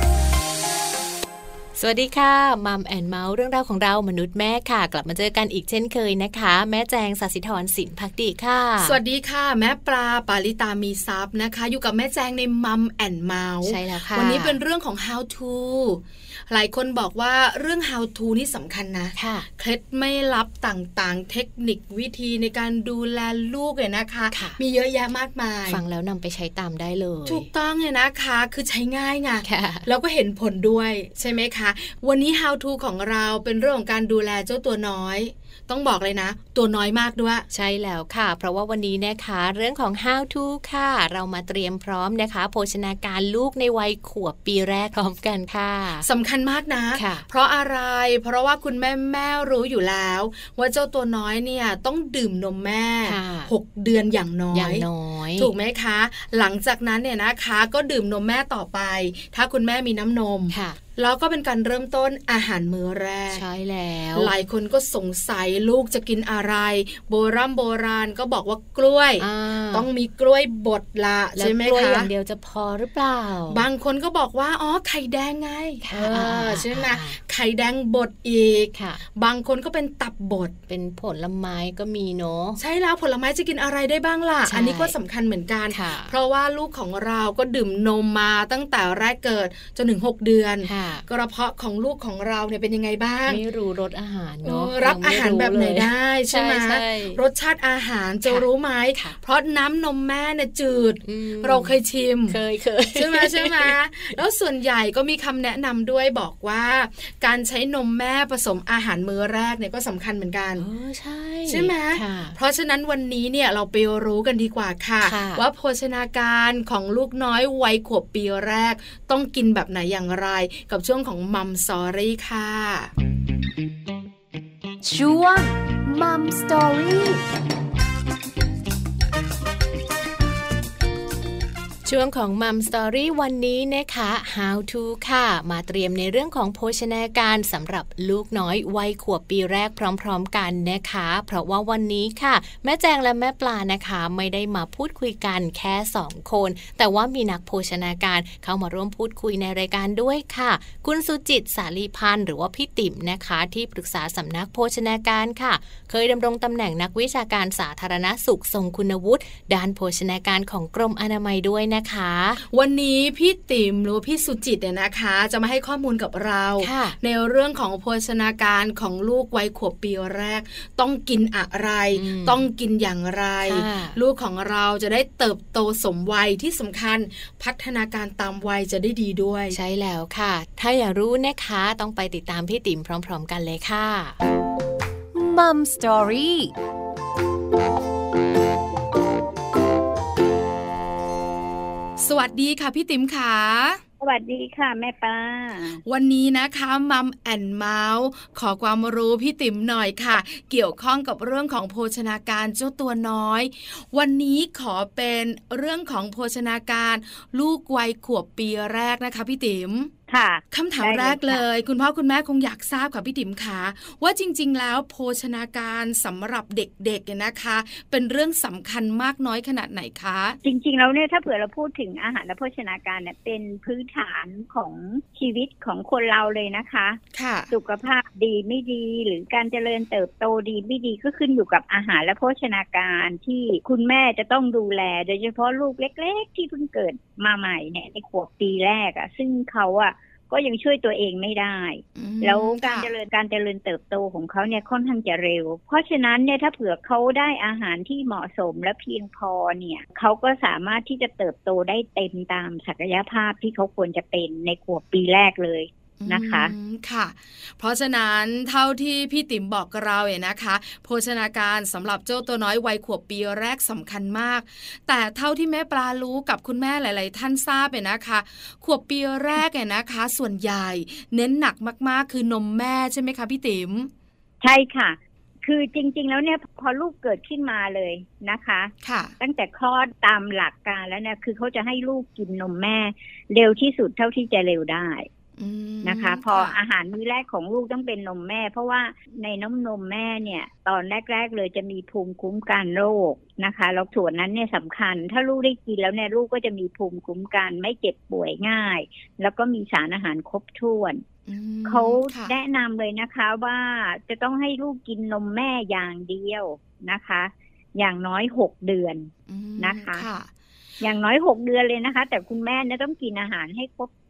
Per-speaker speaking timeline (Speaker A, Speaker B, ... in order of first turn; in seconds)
Speaker A: 1.8-9.0, 13.6-14.6, 19.1-19.5, 24.3-24.6, 25.7-27.5, 29.4-29.9, 37.5-46.1, 46.9-47.2, 53.0-53.5, 54.5-55.5, 60.5-60.8, 63.3-64.3, 69.2-69.9, 71.3-73.7, 75.9-77.2, 78.7-79.0, 80.7-82.6, 84.5-84.9, 85.7-86.1, 90.6-91.0, 93.3-97.2, 98.2-99.2, 101.0-104.2, 110.6-112.3, 115.0-115.4, 131.8-162.4, 166.6-167.0, 171.9-172.5, 173.4-174.0, 179.5-184.2
Speaker B: 8.8-25.8, 27.2-37.4, 46.0-63.4, 64.1-72.1, 73.5-80.5, 82.6-93.4, 94.4-102.4, 102.9-110.7, 111.5-122.9, 162.5-179.6, 192.0-193.8, 195.8-209.9, 210.5-220.4, 227.1-227.5, 242.0-242.9, 256.0-273.9, 278.8-279.1, 285.4-286.6, 301.3-302.3, 309.3-310.3
Speaker C: 124.8-127.2, 185.1-186.5
Speaker D: 194.0-195.8, 210.1-211.4, 220.4-227.0, 227.5-256.5, 274.4-285.1, 285.8-301.0, 301.6-310.1, 310.8-313.9